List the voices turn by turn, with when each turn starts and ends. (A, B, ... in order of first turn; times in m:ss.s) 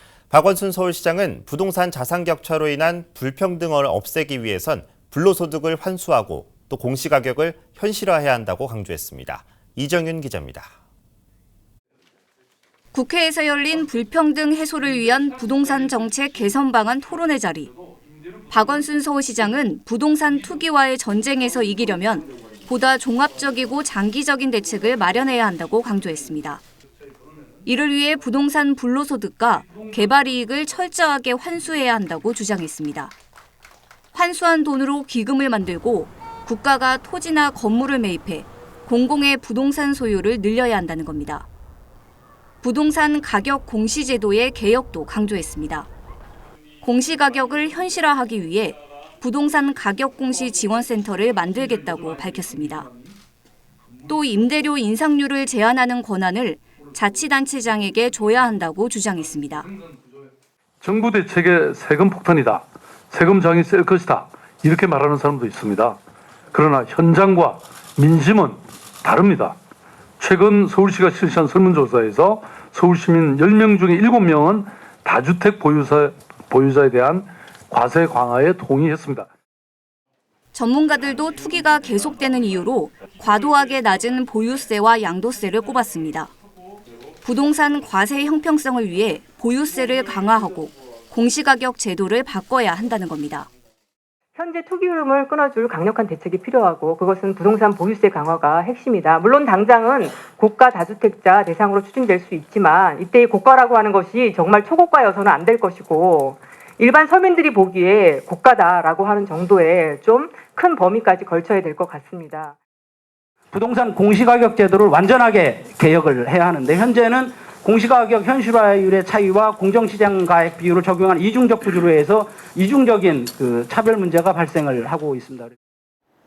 0:00.3-0:10.7 A
0:12.9-0:17.7 B
0:15.0-0:16.4 C
0:17.6-0:18.9 C
0:18.5-0:26.6 B
0:20.3-0:20.6 C
0:22.1-0:22.6 C
0:27.1-0:27.6 C
0:27.6-0:33.1 B
0:29.6-0:30.0 C
0:34.1-0:41.5 B
0:42.6-0:45.9 B
0:46.8-0:52.9 B
0:51.5-0:53.2 C
0:54.1-0:59.7 B
0:59.4-1:00.3 C
1:00.8-1:06.0 C
1:06.5-1:09.6 C
1:10.2-1:19.3 C
1:20.5-1:26.3 B
1:27.2-1:33.5 B
1:34.4-1:52.5 D
1:53.5-2:05.6 E